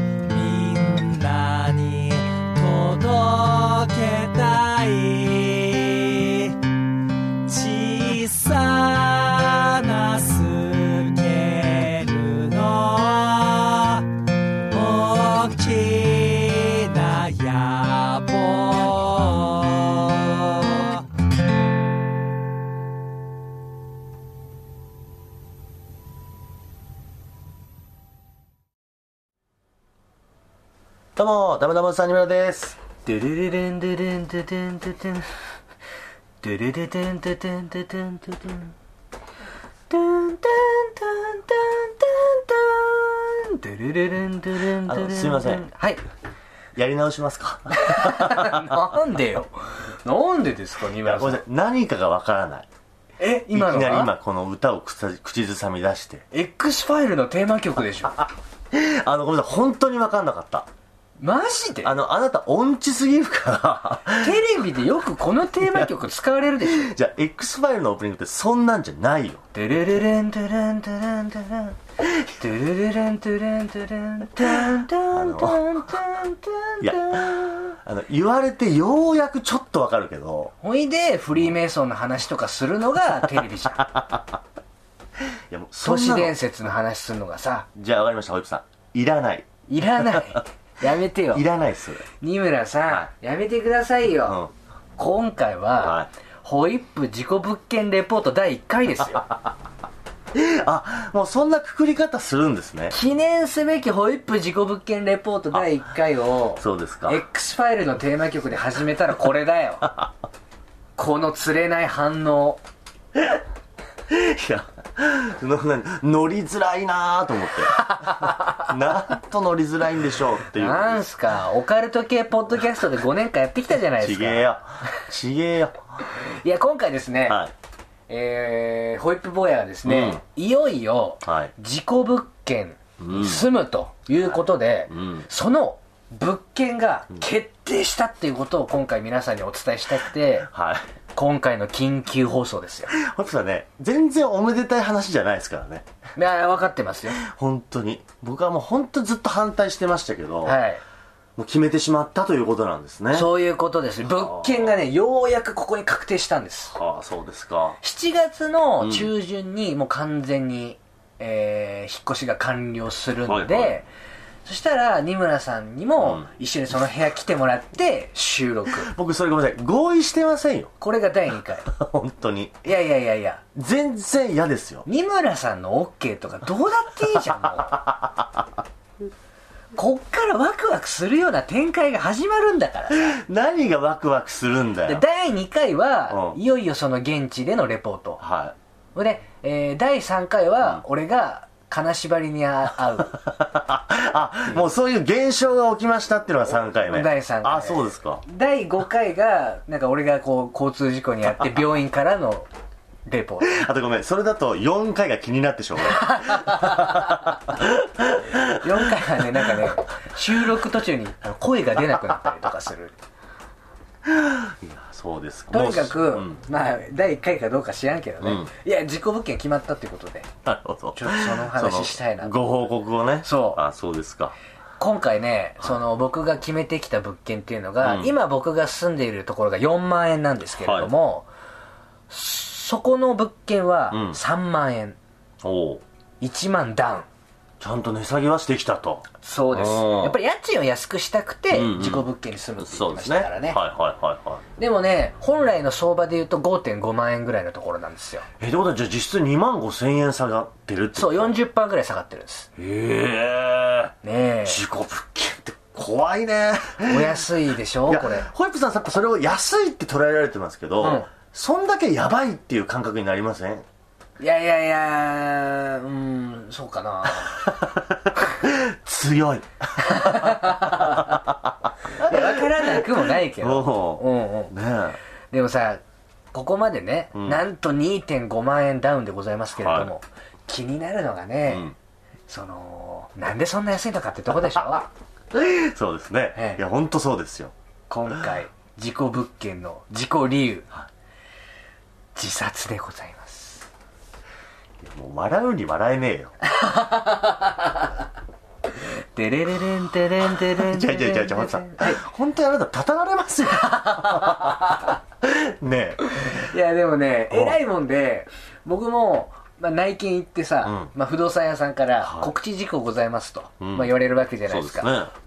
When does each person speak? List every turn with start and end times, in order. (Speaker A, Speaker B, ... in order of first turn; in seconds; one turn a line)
Speaker A: 0.2-6.7
Speaker A: 7.4-14.1
Speaker A: 14.7-21.1
Speaker B: 31.2-32.8
Speaker C: 33.1-35.4
Speaker C: 36.4-38.7
Speaker C: 39.9-46.0
Speaker B: 44.8-45.6
Speaker B: 46.8-48.7
Speaker C: 47.7-51.4
Speaker B: 51.0-52.7
Speaker C: 53.2-54.1
Speaker B: 53.5-56.2
Speaker C: 56.3-58.2
Speaker B: 58.7-60.7
Speaker C: 61.2-62.0
Speaker B: 61.8-64.4
Speaker C: 64.2-66.9
Speaker B: 66.7-69.4
Speaker C: 69.5-77.8
Speaker B: 74.4-75.7
Speaker B: 76.8-80.5
Speaker C: 80.6-83.9
Speaker B: 83.9-84.2
Speaker B: 85.3-86.4
Speaker C: 85.8-87.7
Speaker B: 87.8-89.5
Speaker C: 89.7-91.5
Speaker B: 91.3-92.0
Speaker C: 92.1-94.4
Speaker B: 94.2-94.5
Speaker C: 95.0-99.3
Speaker B: 95.8-96.1
Speaker B: 100.3-102.9
Speaker C: 102.9-110.0
Speaker B: 106.6-107.2
Speaker C: 111.0-112.6
Speaker B: 114.1-121.0
Speaker C: 117.7-118.7
Speaker C: 120.5-125.0
Speaker B: 124.0-126.0
Speaker C: 126.0-127.4
Speaker B: 127.3-127.5
Speaker C: 128.1-140.5
Speaker B: 129.8-130.2
Speaker B: 131.2-131.5
Speaker B: 133.0-133.4
Speaker B: 134.9-135.3
Speaker B: 140.5-140.8
Speaker C: 141.2-142.9
Speaker B: 142.9-145.8
Speaker C: 146.2-147.2
Speaker B: 147.2-150.6
Speaker C: 150.4-150.8
Speaker B: 151.4-153.3
Speaker C: 153.1-156.8
Speaker B: 154.1-154.7
Speaker B: 156.8-157.8
Speaker C: 157.8-163.9
Speaker B: 158.8-159.1
Speaker B: 163.2-163.8
Speaker C: 164.4-168.9
Speaker B: 168.8-170.7
Speaker C: 170.8-171.7
Speaker B: 171.7-172.7
Speaker C: 172.6-173.4
Speaker B: 173.6-174.8
Speaker C: 174.9-177.8
Speaker B: 177.6-178.5
Speaker C: 179.8-183.2
Speaker B: 182.9-185.0
Speaker C: 184.8-188.2
Speaker B: 186.1-186.4
Speaker B: 188.2-188.6
Speaker C: 188.9-193.2
Speaker B: 193.2-198.2
Speaker C: 196.9-202.5
Speaker C: 203.1-203.6
Speaker B: 203.4-209.1
Speaker C: 205.9-207.4
Speaker C: 208.4-213.0
Speaker B: 214.1-216.4
Speaker C: 215.5-220.3
Speaker B: 218.2-218.5
Speaker B: 220.4-224.3
Speaker C: 220.9-222.3
Speaker C: 223.2-223.6
Speaker C: 224.8-231.3
Speaker B: 227.8-228.2
Speaker B: 230.6-230.9
Speaker C: 232.1-235.0
Speaker B: 233.9-234.2
Speaker B: 235.4-235.8
Speaker C: 236.2-237.1
Speaker B: 237.6-240.2
Speaker C: 239.2-243.6
Speaker B: 241.5-242.1
Speaker B: 242.6-244.4
Speaker C: 244.6-248.3
Speaker B: 248.4-251.3
Speaker C: 251.0-252.5
Speaker B: 252.6-253.9
Speaker C: 254.0-254.6
Speaker B: 254.4-257.3
Speaker C: 256.9-258.3
Speaker B: 257.9-263.7
Speaker C: 260.8-261.1
Speaker C: 264.2-267.6
Speaker B: 267.2-275.0
Speaker C: 269.8-271.2
Speaker C: 272.0-274.5
Speaker C: 275.3-275.8
Speaker C: 276.3-281.7
Speaker B: 277.1-277.4
Speaker B: 279.6-279.9
Speaker B: 281.5-281.8
Speaker C: 282.3-284.9
Speaker B: 285.3-287.5
Speaker C: 286.4-286.6
Speaker C: 287.9-290.7
Speaker C: 292.1-293.7
Speaker B: 294.8-296.3
Speaker C: 296.4-297.9
Speaker C: 298.8-302.0
Speaker B: 300.3-306.5
Speaker C: 303.5-305.0
Speaker C: 306.0-314.9
Speaker B: 307.3-307.6
Speaker B: 310.6-310.9
Speaker B: 312.0-312.3
Speaker B: 313.6-313.9
Speaker B: 314.5-315.1